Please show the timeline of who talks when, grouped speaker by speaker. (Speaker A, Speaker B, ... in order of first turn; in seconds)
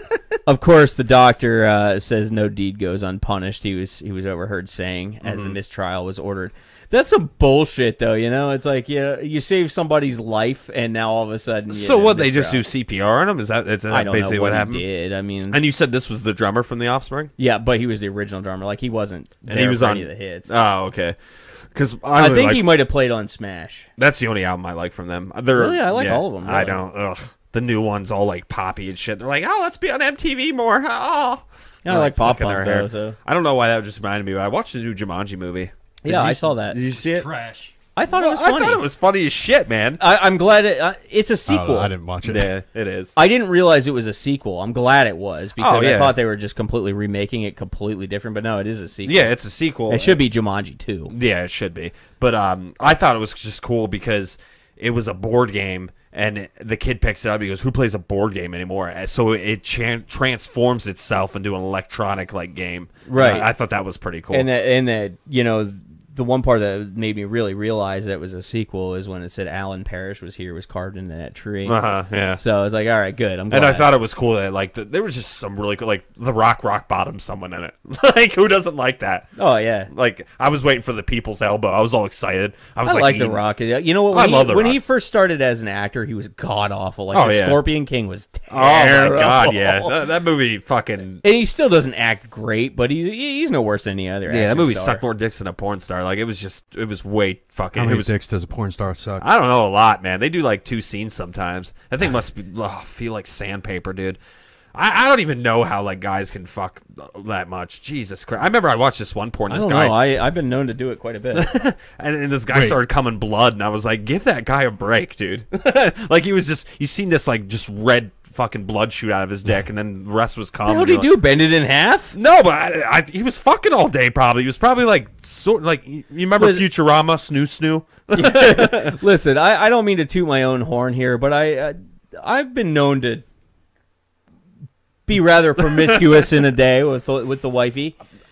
Speaker A: 0.5-12.6, 13.9-15.6, 17.4-20.5, 22.1-23.9, 25.6-26.8, 31.8-33.2, 36.0-36.8, 38.0-38.8, 40.0-41.9, 43.2-49.3, 49.9-51.1, 63.0-63.5, 64.3-71.8, 72.4-73.9, 79.4-79.9, 82.8-90.0, 91.2-95.0, 109.5-111.5, 120.6-122.2, 126.4-126.6, 128.1-133.2, 135.1-138.0
Speaker B: 5.2-5.6, 11.7-14.9, 15.5-17.3, 19.4-22.6, 24.0-37.3, 38.1-40.0, 42.2-43.1, 45.6-46.2, 49.0-50.2, 51.1-64.5, 71.7-72.4, 73.5-79.3, 79.9-83.4, 84.1-84.8, 87.1-87.6, 88.5-91.2, 94.3-98.1, 99.2-104.2, 104.7-110.0, 111.3-121.1, 122.1-128.9
Speaker C: 37.0-37.7, 41.5-42.5, 97.8-99.3, 112.5-112.8